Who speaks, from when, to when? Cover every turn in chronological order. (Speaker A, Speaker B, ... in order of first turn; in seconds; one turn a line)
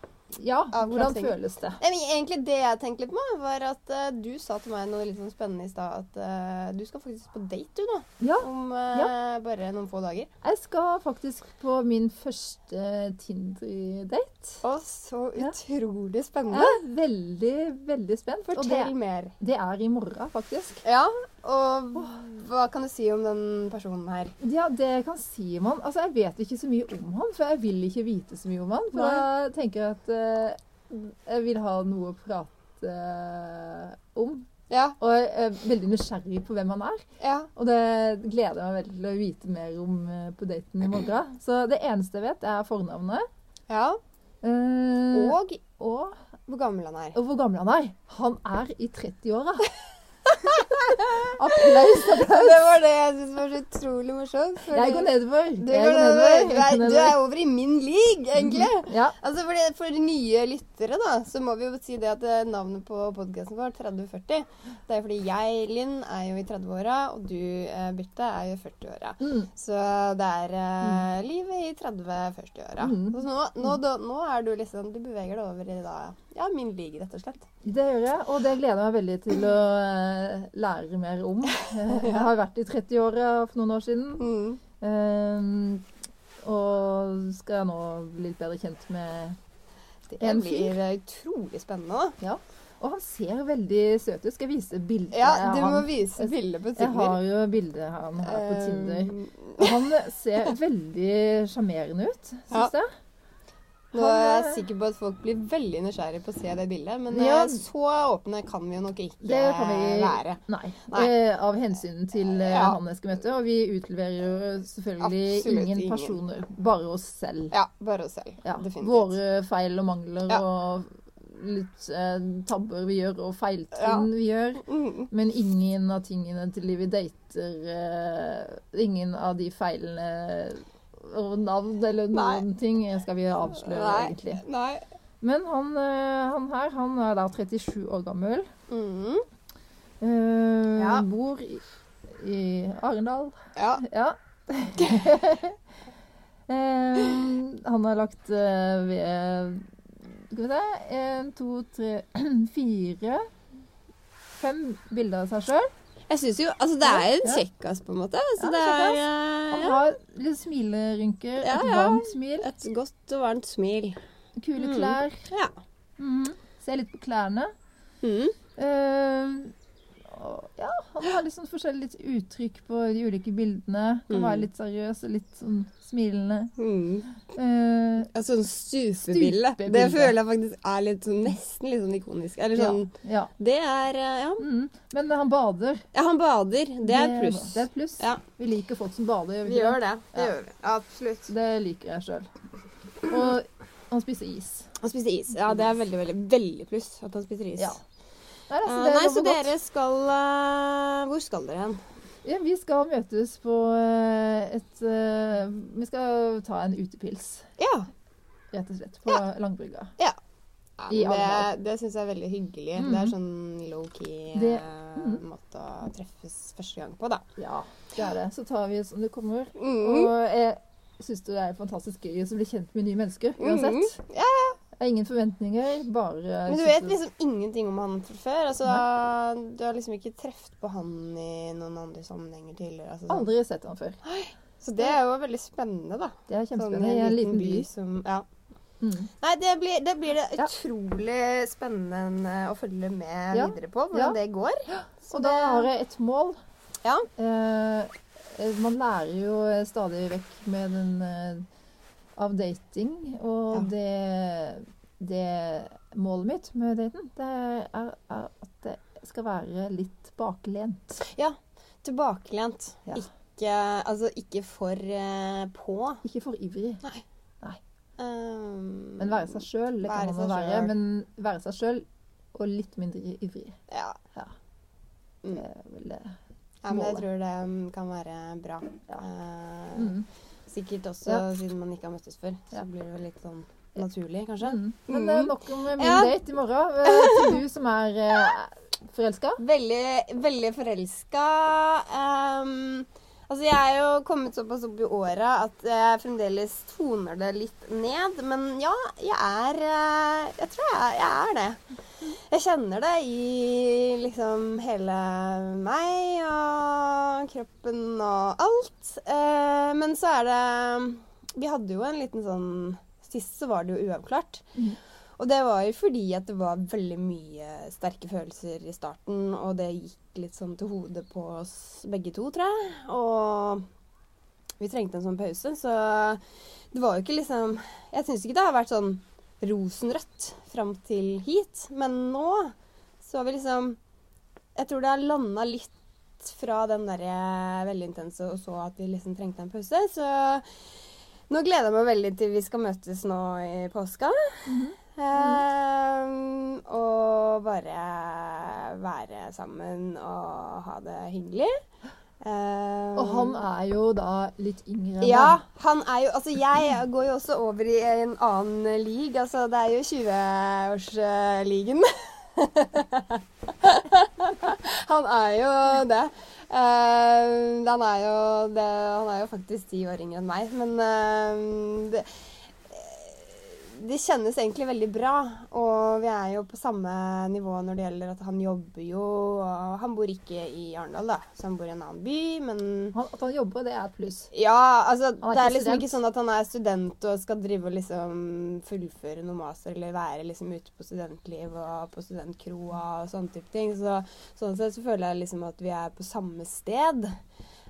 Speaker A: 0.3-1.8
Speaker B: 0.7-10.3
Speaker A: 8.2-9.1
Speaker A: 10.4-14.6
Speaker B: 14.6-16.8
Speaker A: 16.5-20.8
Speaker B: 18.5-19.4
Speaker B: 20.8-24.4
Speaker A: 24.4-43.3
Speaker B: 28.9-29.3
Speaker B: 34.7-35.0
Speaker B: 37.2-37.5
Speaker B: 43.7-44.0
Speaker A: 44.4-46.3
Speaker B: 45.1-45.6
Speaker B: 46.5-47.2
Speaker A: 47.1-49.7
Speaker B: 50.3-77.5
Speaker A: 51.2-52.7
Speaker A: 54.7-57.2
Speaker A: 58.4-59.2
Speaker A: 69.2-69.5
Speaker A: 72.8-73.2
Speaker A: 77.6-84.3
Speaker B: 81.8-82.3
Speaker B: 84.2-84.6
Speaker A: 84.8-85.9
Speaker A: 86.4-89.4
Speaker B: 90.1-92.2
Speaker A: 90.2-90.8
Speaker A: 92.2-102.9
Speaker B: 95.1-97.2
Speaker B: 98.2-99.8
Speaker B: 103.9-110.4
Speaker A: 104.0-104.6
Speaker A: 107.1-107.6
Speaker A: 109.2-117.5
Speaker B: 112.2-112.8
Speaker B: 115.0-116.2
Speaker B: 117.5-119.1
Speaker A: 118.4-134.4
Speaker B: 123.8-124.1
Speaker B: 124.6-125.1
Speaker B: 132.1-132.4
Speaker B: 133.5-134.8
Speaker A: 135.2-138.5
Speaker B: 138.7-139.3
Speaker A: 140.0-145.6
Speaker B: 140.8-141.1
Speaker B: 143.6-143.8
Speaker A: 146.5-153.3
Speaker A: 154.4-155.7
Speaker B: 156.1-159.8
Speaker A: 156.9-157.4
Speaker A: 158.4-162.5
Speaker B: 161.4-164.0
Speaker A: 164.4-165.3
Speaker B: 164.6-165.6
Speaker A: 166.0-167.5
Speaker B: 168.0-168.4
Speaker A: 168.6-169.5
Speaker A: 170.1-176.6
Speaker B: 174.1-174.5
Speaker B: 176.6-177.1
Speaker A: 177.3-178.1
Speaker B: 178.1-184.4
Speaker A: 179.1-180.2
Speaker A: 182.6-183.3
Speaker A: 184.4-185.9
Speaker B: 185.9-188.2
Speaker A: 186.8-190.3
Speaker B: 189.4-191.3
Speaker A: 191.3-192.3
Speaker A: 193.0-194.7
Speaker B: 194.8-197.8
Speaker A: 198.5-199.5
Speaker B: 198.7-201.8
Speaker A: 202.2-207.5
Speaker B: 207.6-207.9
Speaker A: 208.5-209.9
Speaker B: 210.8-217.2
Speaker A: 210.9-211.5
Speaker A: 212.8-213.2
Speaker A: 214.3-215.2
Speaker A: 217.4-224.0
Speaker B: 219.6-220.1
Speaker B: 223.4-224.6
Speaker A: 224.8-227.0
Speaker B: 226.5-233.3
Speaker A: 233.1-234.0
Speaker B: 234.0-238.3
Speaker A: 236.3-237.7
Speaker A: 238.8-239.1
Speaker B: 239.2-245.7
Speaker A: 243.3-244.2
Speaker A: 244.7-246.4
Speaker A: 247.2-251.5
Speaker A: 252.2-261.0
Speaker B: 261.0-266.0
Speaker A: 266.0-266.8
Speaker B: 268.0-270.7
Speaker A: 269.0-273.6
Speaker B: 273.7-274.0
Speaker A: 275.3-276.2
Speaker B: 276.6-279.9
Speaker A: 276.7-277.1
Speaker A: 279.8-280.1
Speaker B: 280.5-286.2
Speaker A: 284.4-289.4
Speaker B: 286.8-287.4
Speaker B: 289.4-314.5
Speaker B: 315.2-323.6
Speaker B: 324.6-333.8
Speaker B: 334.6-340.5
Speaker B: 341.3-351.5
Speaker A: 344.5-345.4
Speaker B: 352.2-353.4
Speaker A: 352.9-355.4
Speaker B: 355.0-372.1
Speaker B: 372.7-382.9
Speaker A: 382.9-384.3
Speaker B: 384.3-397.2
Speaker A: 385.2-385.9